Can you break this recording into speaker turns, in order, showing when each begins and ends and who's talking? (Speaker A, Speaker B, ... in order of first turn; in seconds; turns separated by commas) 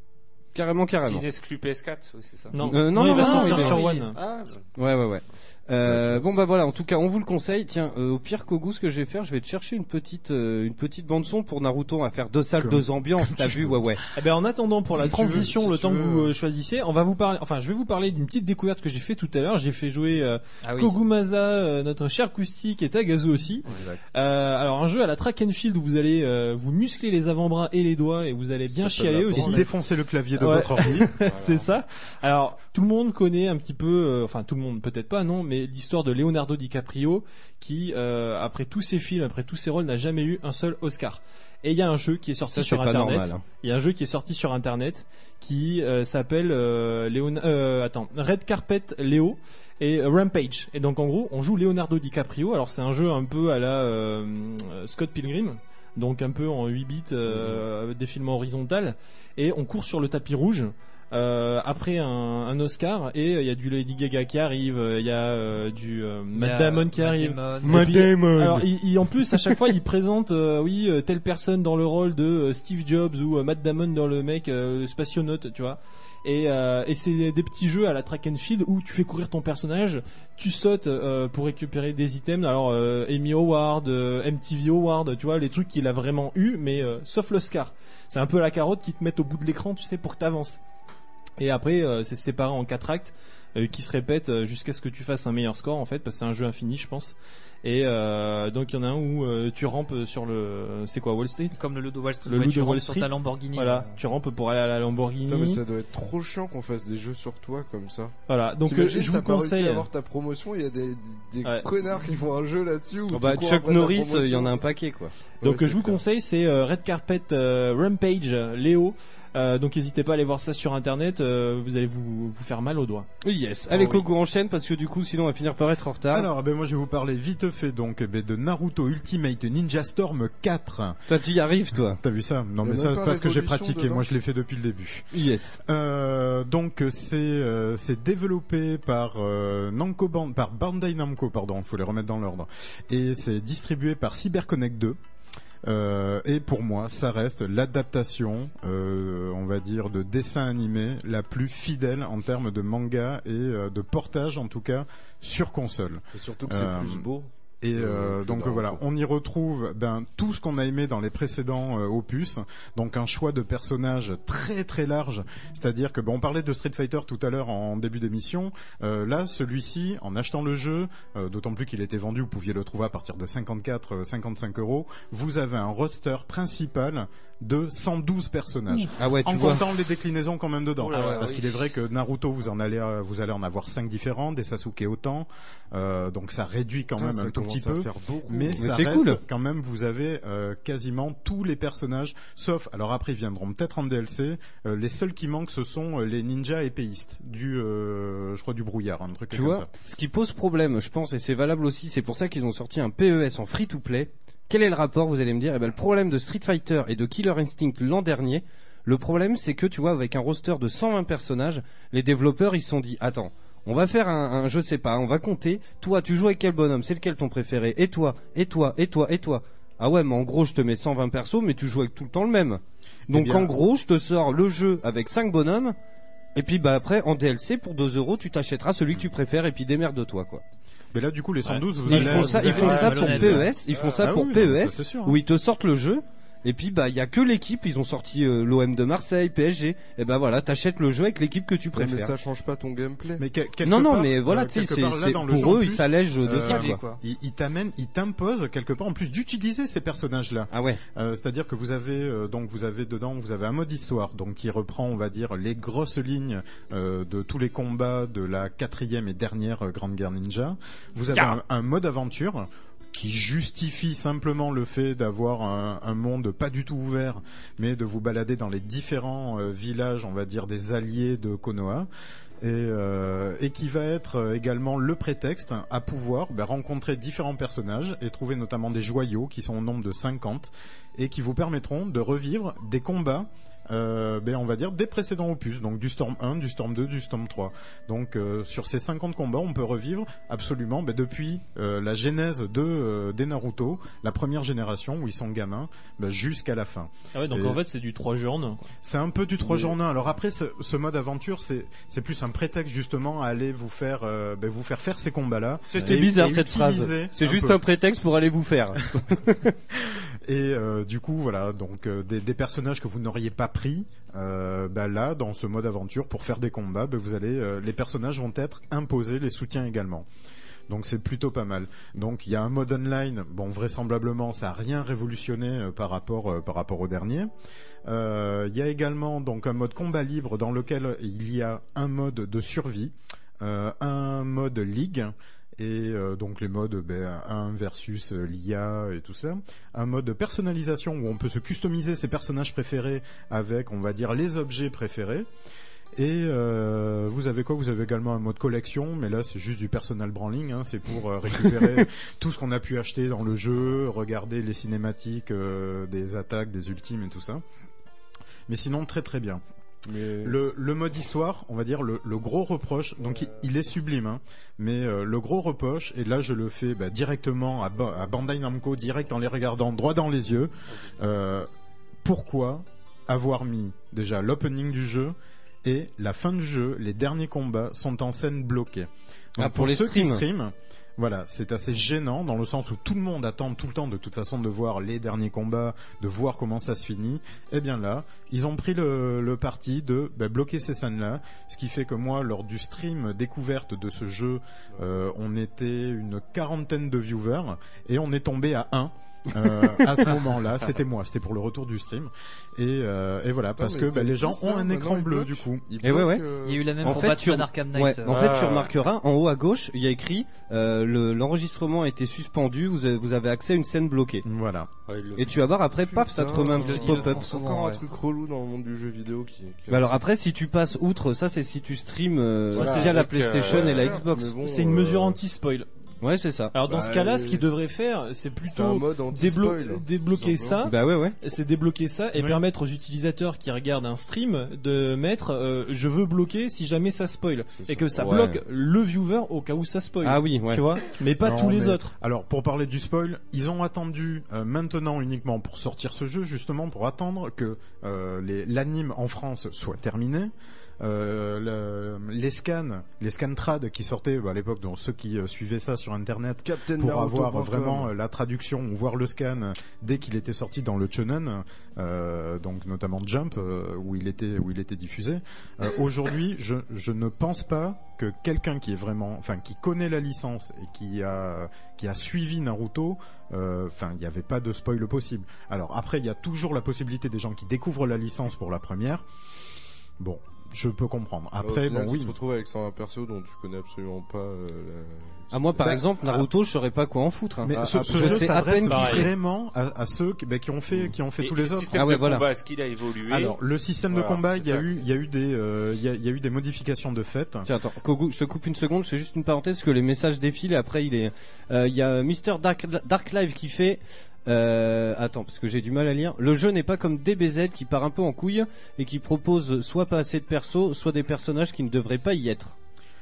Speaker A: 0.5-1.2, Speaker B: 1.0-2.6, Speaker C: 2.5-4.2, Speaker A: 2.6-3.8, Speaker D: 3.0-4.1, Speaker B: 3.3-4.6, Speaker A: 4.8-14.0, Speaker E: 5.8-6.3, Speaker E: 12.6-13.8, Speaker C: 14.1-29.6, Speaker E: 15.0-16.2, Speaker F: 15.1-16.3, Speaker D: 20.6-20.9, Speaker F: 28.7-29.7, Speaker E: 29.3-31.1, Speaker C: 30.4-90.6, Speaker B: 31.2-31.7, Speaker A: 42.5-43.4, Speaker F: 57.3-57.6, Speaker D: 66.3-68.0, Speaker A: 67.6-69.6, Speaker C: 91.4-101.5, Speaker D: 101.5-104.0, Speaker C: 102.2-105.6, Speaker F: 105.3-114.7, Speaker C: 108.3-109.9, Speaker A: 113.1-115.1, Speaker F: 115.4-116.0, Speaker C: 115.4-123.1, Speaker A: 123.2-126.3, Speaker C: 123.7-124.0, Speaker E: 126.1-131.0, Speaker A: 131.1-132.0, Speaker E: 132.0-145.0, Speaker F: 132.6-134.0, Speaker A: 135.1-135.6, Speaker E: 145.6-157.1, Speaker F: 156.1-158.8, Speaker E: 157.6-199.7, Speaker A: 178.9-179.6, Speaker B: 180.8-181.6, Speaker D: 180.9-181.2, Speaker F: 187.0-188.7, Speaker A: 188.6-189.2, Speaker A: 199.3-225.8, Speaker E: 223.1-223.5, Speaker A: 226.3-230.4, Speaker E: 230.9-233.5, Speaker D: 231.8-233.5, Speaker A: 231.8-242.1, Speaker C: 231.9-232.3, Speaker B: 233.7-234.0, Speaker E: 234.0-235.2, Speaker F: 241.7-243.2, Speaker E: 243.2-271.9, Speaker A: 243.6-246.8, Speaker D: 246.2-247.0, Speaker A: 250.5-250.8, Speaker E: 272.4-297.6, Speaker C: 297.1-298.7, Speaker E: 298.8-307.6, Speaker A: 305.7-309.6, Speaker E: 309.7-320.1, Speaker E: 320.7-327.3, Speaker E: 327.8-345.3, Speaker E: 345.9-357.4, Speaker E: 358.5-359.4, Speaker F: 359.9-360.4, Speaker E: 360.2-371.5, Speaker E: 372.0-405.6, Speaker A: 379.4-380.2, Speaker F: 403.6-407.0, Speaker A: 405.8-406.2, Speaker D: 406.4-408.3, Speaker A: 406.8-414.2, Speaker B: 408.1-408.7, Speaker E: 414.2-414.7, Speaker B: 414.9-415.4, Speaker A: 415.1-417.3, Speaker F: 415.8-420.0, Speaker D: 416.5-417.8, Speaker A: 419.7-424.4, Speaker B: 422.5-423.9, Speaker F: 422.5-425.2, Speaker C: 422.6-422.9, Speaker C: 424.4-425.7, Speaker A: 426.0-426.6, Speaker C: 426.5-441.9, Speaker F: 426.7-427.5, Speaker F: 428.5-430.7, Speaker A: 430.6-431.1, Speaker F: 437.6-438.0, Speaker A: 438.0-438.4, Speaker A: 440.0-440.7, Speaker E: 441.2-479.1, Speaker F: 456.4-457.9, Speaker E: 480.0-482.1, Speaker F: 481.4-485.8, Speaker A: 485.3-489.1, Speaker E: 485.6-486.2, Speaker E: 487.4-491.8, Speaker F: 487.5-488.4, Speaker C: 488.7-489.0, Speaker B: 491.2-493.4, Speaker A: 491.7-492.2, Speaker E: 493.1-497.5, Speaker B: 493.9-494.7, Speaker A: 497.4-512.5